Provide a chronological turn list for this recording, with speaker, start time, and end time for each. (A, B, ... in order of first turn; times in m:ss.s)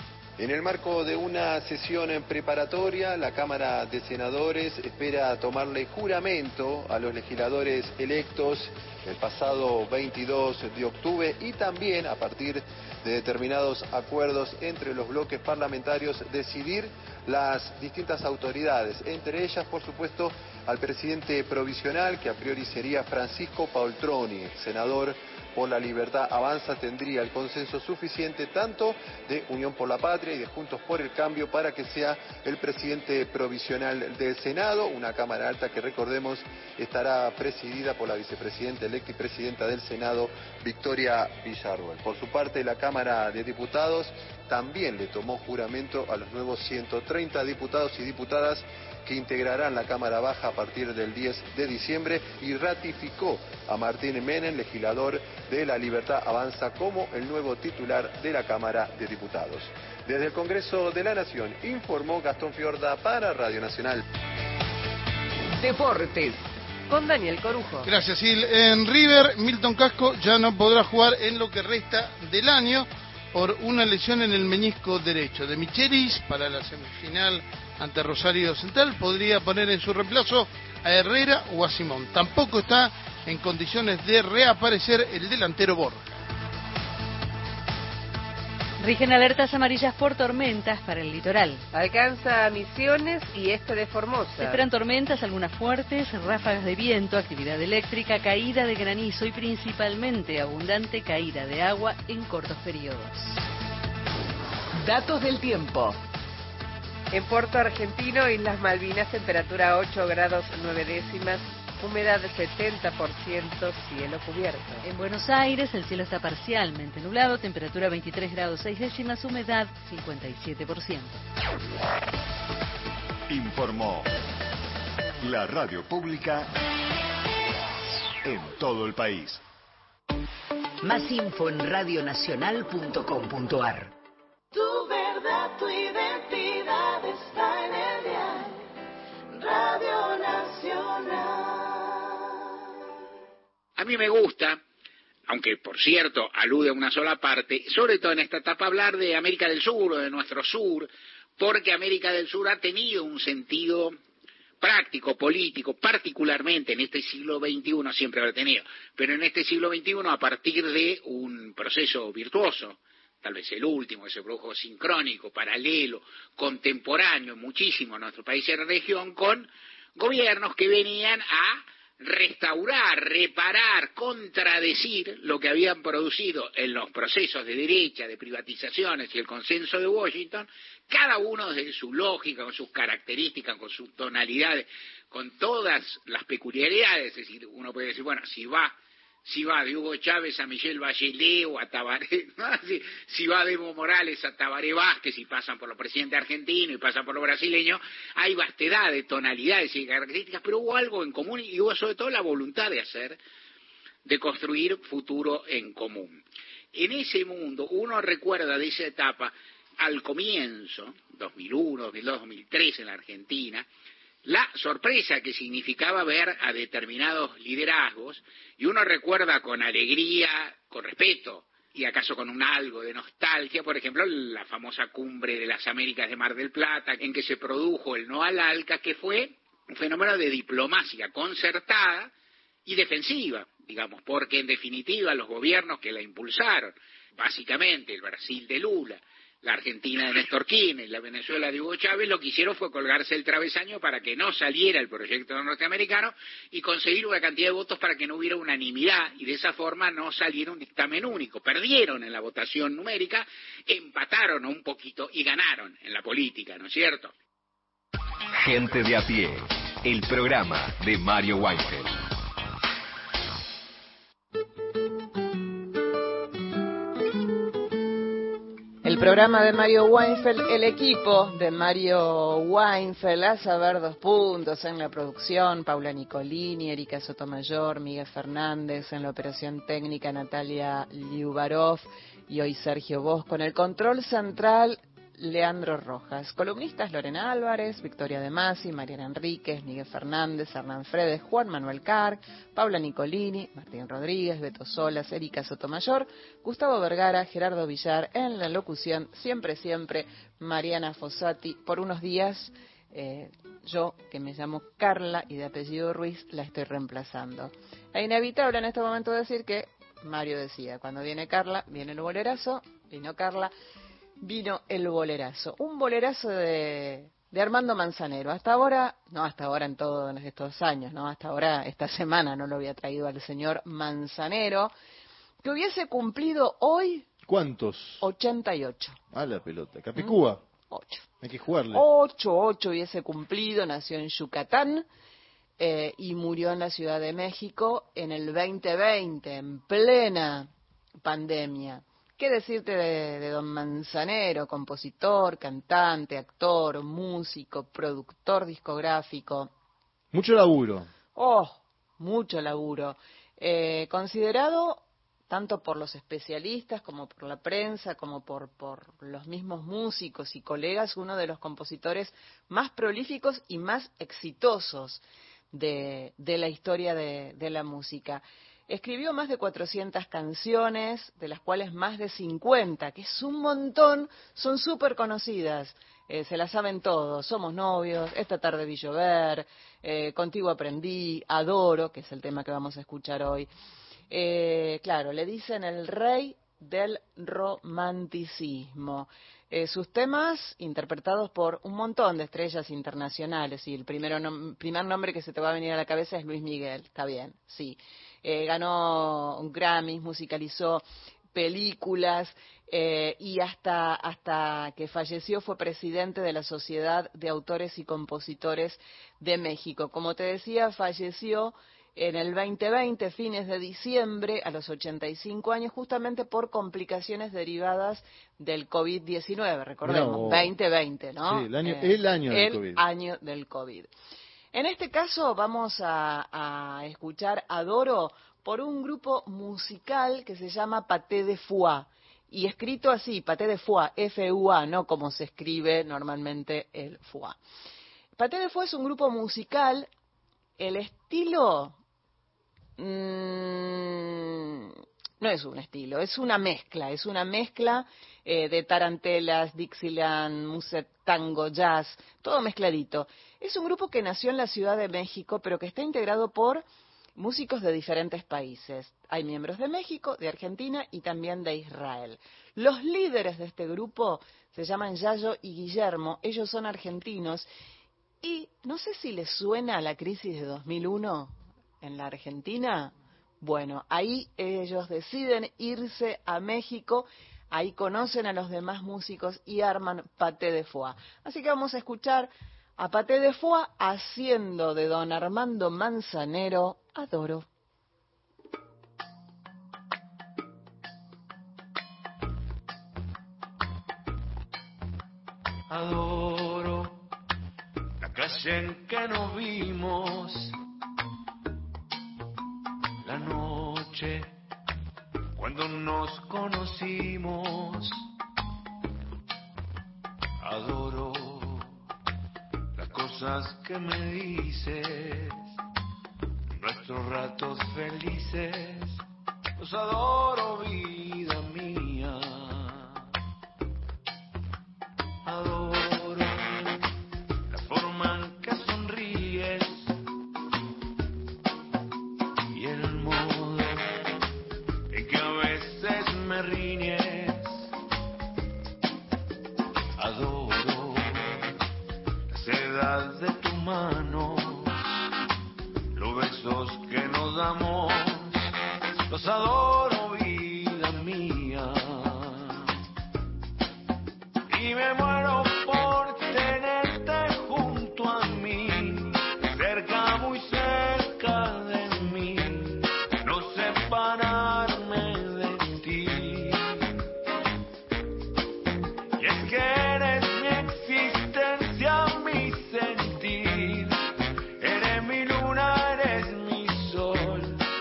0:00.4-1:04.0 A
1:05.6-1:06.4 B
1:06.9-1:07.9 C
1:07.8-1:26.1 D
1:28.8-1:31.6 E
1:31.7-1:34.6 C
1:34.4-1:43.4 E
1:44.8-1:46.0 B
1:47.1-1:54.8 C
1:54.8-2:01.2 E
2:03.3-2:04.1 F
2:05.2-2:06.5 F
2:08.2-2:09.4 F
2:10.8-2:13.9 B
2:14.5-2:18.6 G
2:19.4-2:22.2 G
2:23.8-2:24.6 H
2:25.3-2:34.0 H
2:34.6-3:23.2 H
3:24.1-3:26.2 H
3:26.7-3:33.7 H
3:34.2-3:52.1 H
3:52.7-4:17.1 H
4:18.4-4:22.0 I
4:28.8-5:13.5 J
5:14.2-5:24.7 J
5:25.4-5:27.1 J
5:27.3-5:28.0 K
5:28.0-5:29.0 J
5:29.1-5:30.4 K
5:30.7-5:31.1 J
5:31.2-5:31.8 K
5:31.7-5:34.9 J
5:35.6-5:40.5 J
5:41.0-5:49.5 J
5:50.1-5:50.9 K
5:51.2-6:23.5 J
6:24.1-7:03.9 J
6:59.8-7:00.5 K
7:01.2-7:02.8 K
7:04.5-7:17.4 J
7:18.2-7:19.9 J
7:20.6-7:21.8 J
7:22.8-7:36.6 J
7:37.2-7:47.5 J
7:48.2-8:07.5 J
8:15.7-8:17.0 L
8:18.0-8:20.6 L
8:23.0-8:24.4 L
8:25.4-8:28.1 L
8:30.4-8:31.8 L
8:32.8-8:35.6 L
8:36.6-8:39.0 L
8:39.6-8:42.9 L
8:45.2-8:46.8 L
8:47.5-8:50.0 L
8:52.5-8:53.8 L
8:54.9-8:57.7 L
9:00.0-9:01.5 L
9:02.3-9:05.0 L
9:05.9-9:08.5 L
9:09.1-9:12.7 L
9:14.5-9:26.9 L
9:29.2-9:34.0 L
9:34.6-9:37.6 L